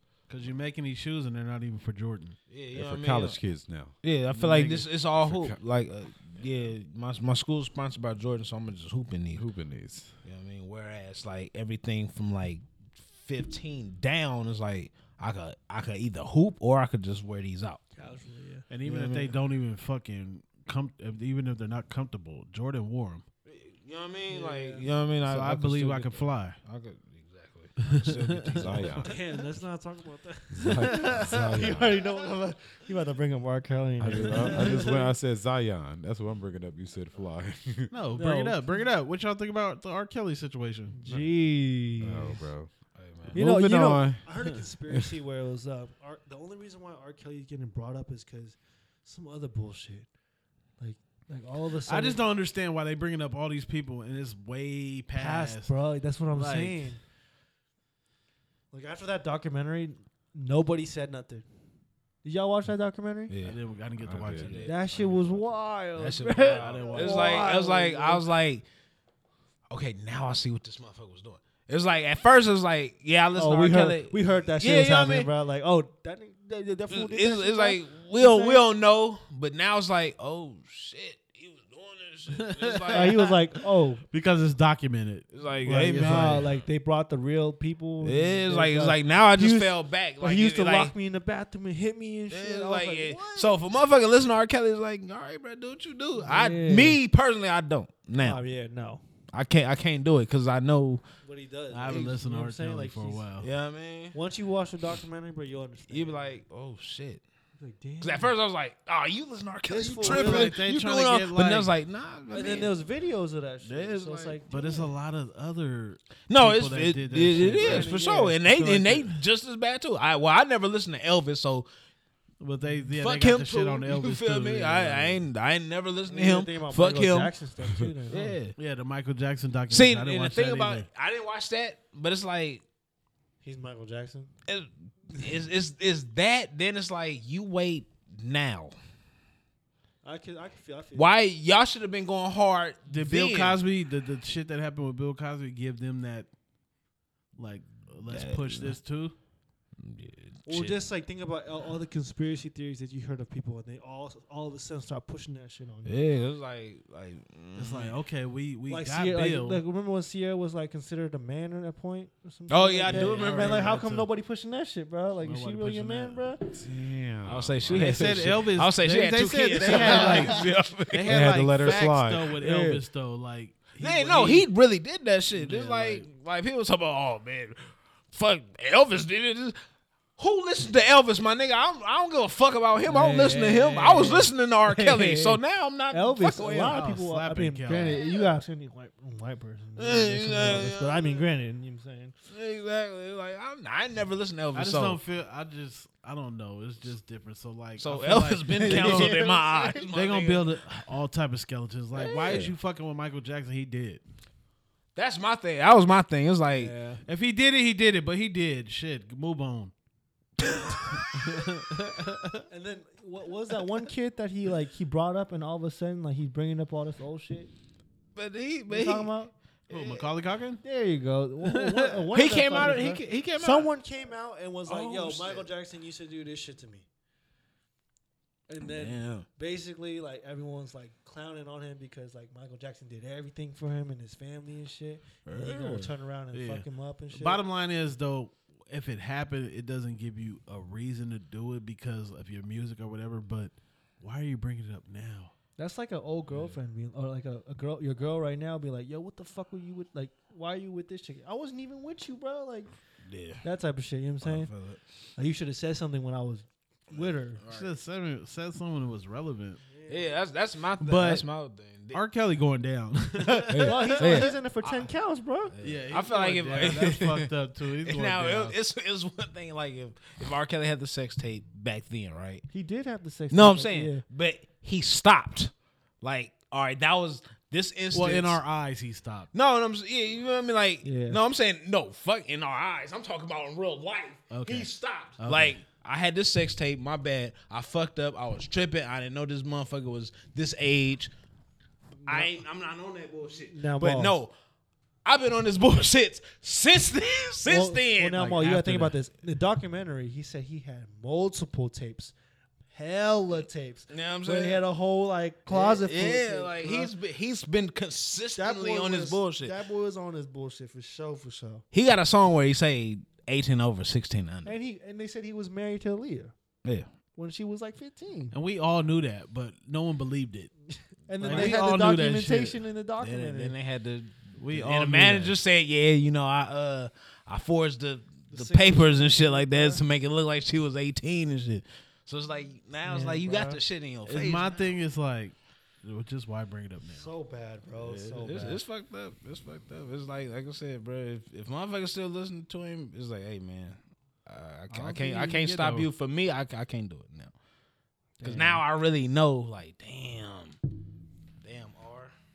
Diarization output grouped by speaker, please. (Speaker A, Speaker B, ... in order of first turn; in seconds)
Speaker A: 0.3-2.4, 4.3-4.8, 18.7-23.2, 25.2-26.6, 27.9-28.8, 37.9-41.0, 51.9-55.7, 56.3-56.9, 63.4-64.7, 66.4-67.5, 82.5-83.2, 84.1-86.5, 101.7-103.5, 110.0-111.7, 114.5-119.2, 122.4-125.2, 128.5-130.9, 142.9-146.3, 147.3-149.1, 157.6-159.6, 162.8-164.1, 165.2-166.3, 167.7-174.5, 175.3-176.1, 186.7-188.0, 194.5-199.2, 199.9-204.0, 207.1-209.7, 211.1-212.2, 219.7-220.6, 221.5-222.8, 236.3-245.3, 257.5-259.6, 260.8-261.3, 261.9-264.3, 265.6-268.6, 277.9-279.3, 284.3-285.6, 298.3-298.9, 318.3-320.5, 321.2-322.6, 324.4-325.4, 334.0-337.1, 337.8-338.5, 345.0-345.9
Speaker B: 2.5-3.4, 4.0-9.4, 10.2-17.8, 18.8-19.4, 23.4-29.2, 42.9-43.4, 63.3-63.6, 64.2-64.8, 66.0-68.6, 69.7-75.3, 76.9-83.3, 85.3-86.6, 88.0-90.9, 92.3-98.4, 99.3-101.0, 101.8-102.1, 103.4-104.2, 105.9-107.2, 108.0-112.8, 113.6-114.4, 116.3-121.7, 122.9-127.3, 128.1-128.5, 129.7-132.6, 134.5-138.7, 140.9-143.6, 148.1-148.8, 149.8-150.8, 155.8-157.9, 162.5-163.8, 167.2-171.3, 173.8-179.6, 180.2-186.8, 187.8-188.3, 189.8-191.2, 192.3-195.0, 197.8-200.6, 201.9-202.5, 204.9-206.8, 210.4-211.4, 218.1-219.2, 219.7-220.1, 222.1-223.7, 224.7-225.5, 228.6-229.2, 235.2-235.9, 253.0-253.4, 254.2-254.8, 256.9-257.7, 259.9-262.0, 263.5-264.9, 265.5-267.3, 267.8-272.4, 273.3-278.4, 279.3-291.1, 292.1-294.3, 295.0-298.7, 303.9-304.6, 305.5-309.6, 311.7-314.5, 321.2-321.7, 323.0-334.7, 338.1-347.3, 348.2-350.6, 351.4-352.1
Speaker C: 2.7-5.6, 9.4-10.2, 28.6-29.1, 30.5-32.0, 34.0-37.9, 41.0-41.3, 42.0-42.7, 43.2-44.2, 64.0-65.5, 166.5-168.5, 171.0-172.4
Speaker D: 17.9-18.7, 24.3-24.9, 29.0-35.1, 38.1-38.9, 40.9-42.5, 43.3-50.1, 50.8-52.2, 55.1-57.0, 58.7-61.5, 62.2-63.3, 64.6-68.3, 73.3-78.6, 82.9-84.0, 85.7-93.6, 96.2-97.0, 98.2-99.0, 101.2-103.3, 104.1-106.4, 107.6-108.3, 109.7-110.6, 112.3-114.9, 117.5-118.4, 126.0-128.4, 133.4-134.3, 140.0-141.1, 150.4-156.0, 158.7-166.5, 169.6-170.4, 172.4-172.8, 182.8-192.1, 198.6-199.9, 206.5-207.0, 212.5-217.5, 218.7-219.3, 220.6-226.8, 228.5-237.4, 245.6-252.7, 253.4-254.5, 255.2-257.4, 259.7-260.1, 263.4-265.5, 272.5-274.0, 280.8-281.2, 292.0-292.4, 293.5-294.2, 297.4-302.1, 302.7-306.9, 308.4-311.6, 314.4-316.3, 317.1-318.3, 321.0-323.5, 328.3-329.8, 332.8-333.6, 336.9-338.6, 344.7-345.5, 348.2-348.6